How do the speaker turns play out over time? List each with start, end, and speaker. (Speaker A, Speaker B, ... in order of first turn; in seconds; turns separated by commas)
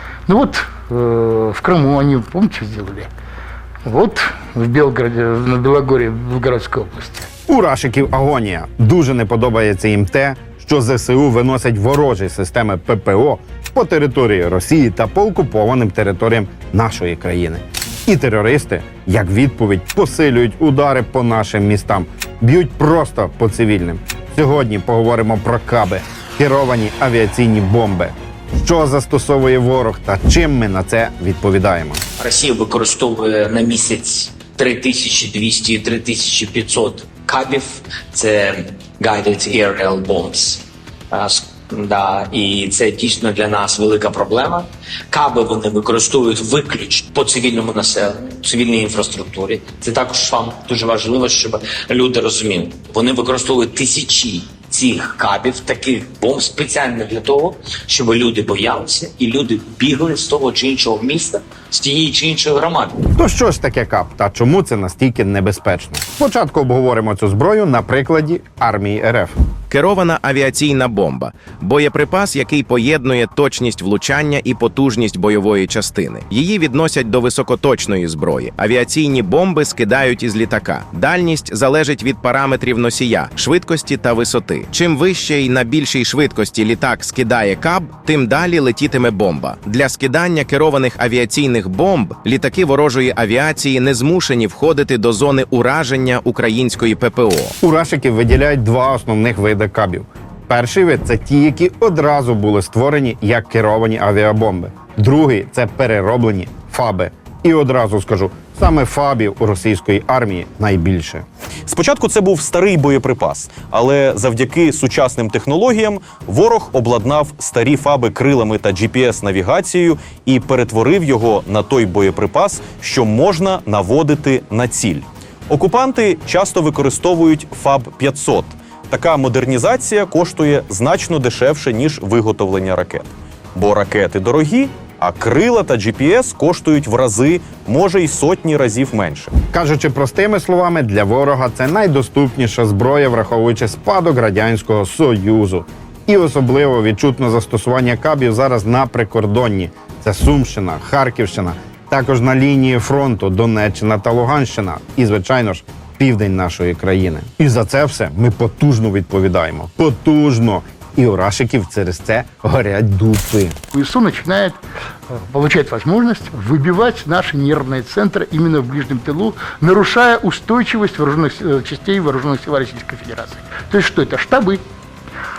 Speaker A: 0.3-3.1, Speaker A: 3.9-7.2, Speaker B: 7.5-32.0, Speaker C: 32.2-63.0, Speaker B: 63.1-69.3, Speaker D: 69.7-97.5, Speaker B: 97.6-111.2, Speaker E: 111.7-139.3, Speaker B: 139.5-163.6, Speaker A: 163.7-164.6, Speaker A: 165.1-174.6